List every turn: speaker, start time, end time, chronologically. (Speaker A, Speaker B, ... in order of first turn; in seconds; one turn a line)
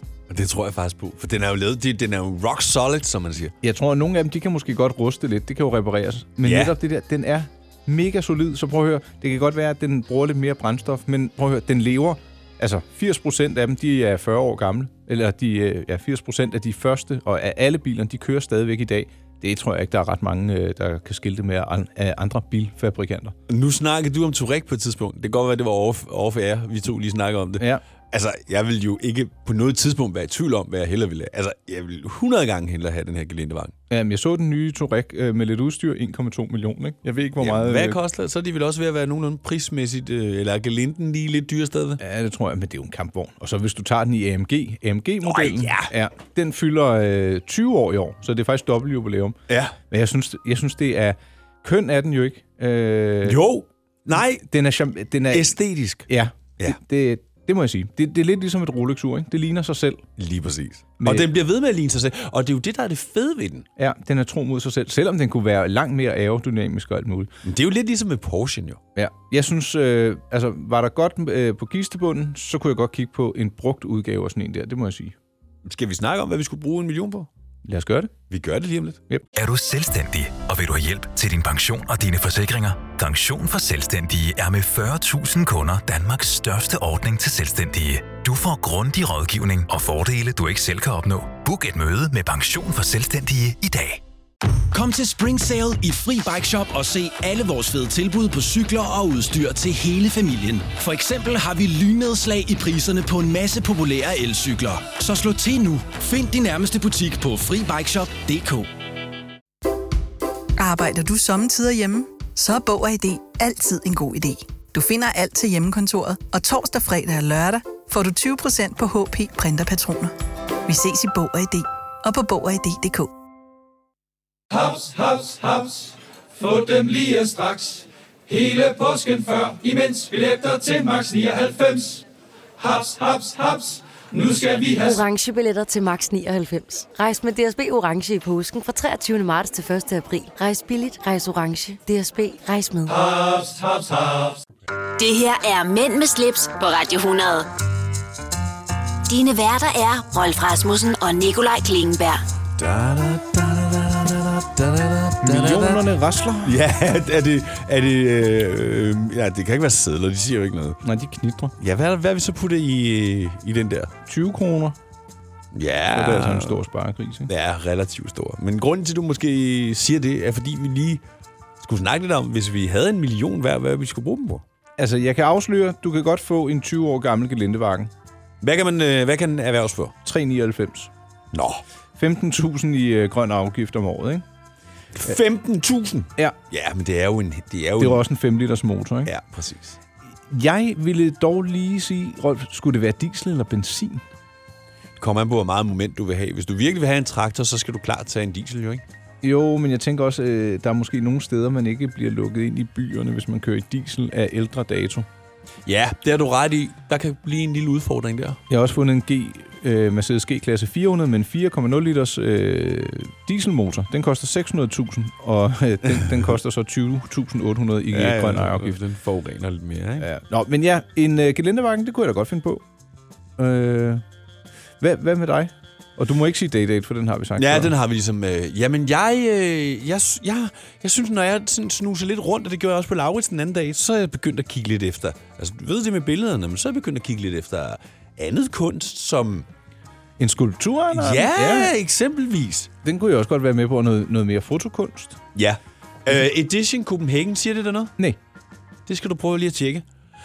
Speaker A: 0.3-3.5
Speaker B: 3.6-23.3
Speaker A: 6.4-6.8
Speaker A: 23.5-33.7
Speaker B: 33.9-38.0
Speaker A: 37.4-42.0
Speaker B: 42.0-49.4
Speaker A: 45.2-45.9
Speaker A: 49.5-49.8
Speaker B: 49.9-53.4
Speaker A: 53.2-54.4
Speaker B: 54.1-60.0
Speaker A: 55.3-56.8
Speaker A: 60.2-63.7
Speaker B: 61.0-61.3
Speaker B: 63.8-67.3
Speaker A: 67.4-68.8
Speaker B: 69.0-75.2
Speaker A: 75.6-77.3
Speaker B: 77.7-78.1
Speaker A: 78.3-79.0
Speaker C: 79.3-94.0
Speaker D: 94.7-108.7
Speaker E: 110.6-120.1
Speaker E: 120.7-123.1
Speaker F: 124.5-132.0
Speaker F: 132.6-135.0
Speaker G: 134.8-142.9
Speaker F: 142.9-144.4
Speaker H: 145.0-147.5
Speaker H: 149.1-152.2
Speaker A: 152.6-155.8
Speaker B: 155.2-156.6
Speaker A: 156.4-160.8
Speaker B: 160.8-161.5
Speaker A: 161.6-163.9
Speaker B: 164.1-164.8
Speaker A: 165.5-166.6
Speaker B: 165.9-167.3
Speaker A: 167.3-171.0
Speaker A: 171.6-174.4
Speaker B: 174.8-177.9
Speaker A: 178.4-179.9
Speaker B: 180.0-180.9
Speaker A: 181.3-181.6
Speaker B: 182.0-184.2
Speaker A: 184.9-188.0
Speaker B: 187.8-189.1
Speaker A: 189.1-189.8
Speaker B: 190.3-194.0
Speaker A: 195.0-198.8
Speaker B: 199.2-205.1
Speaker A: 205.7-208.4
Speaker B: 208.5-218.8
Speaker A: 217.9-220.1
Speaker B: 220.0-222.6
Speaker B: 223.4-224.0
Speaker B: 224.8-227.7
Speaker A: 227.4-239.5
Speaker B: 240.2-241.7
Speaker A: 240.9-242.7
Speaker B: 242.8-245.2
Speaker A: 245.3-247.9
Speaker A: 248.9-249.8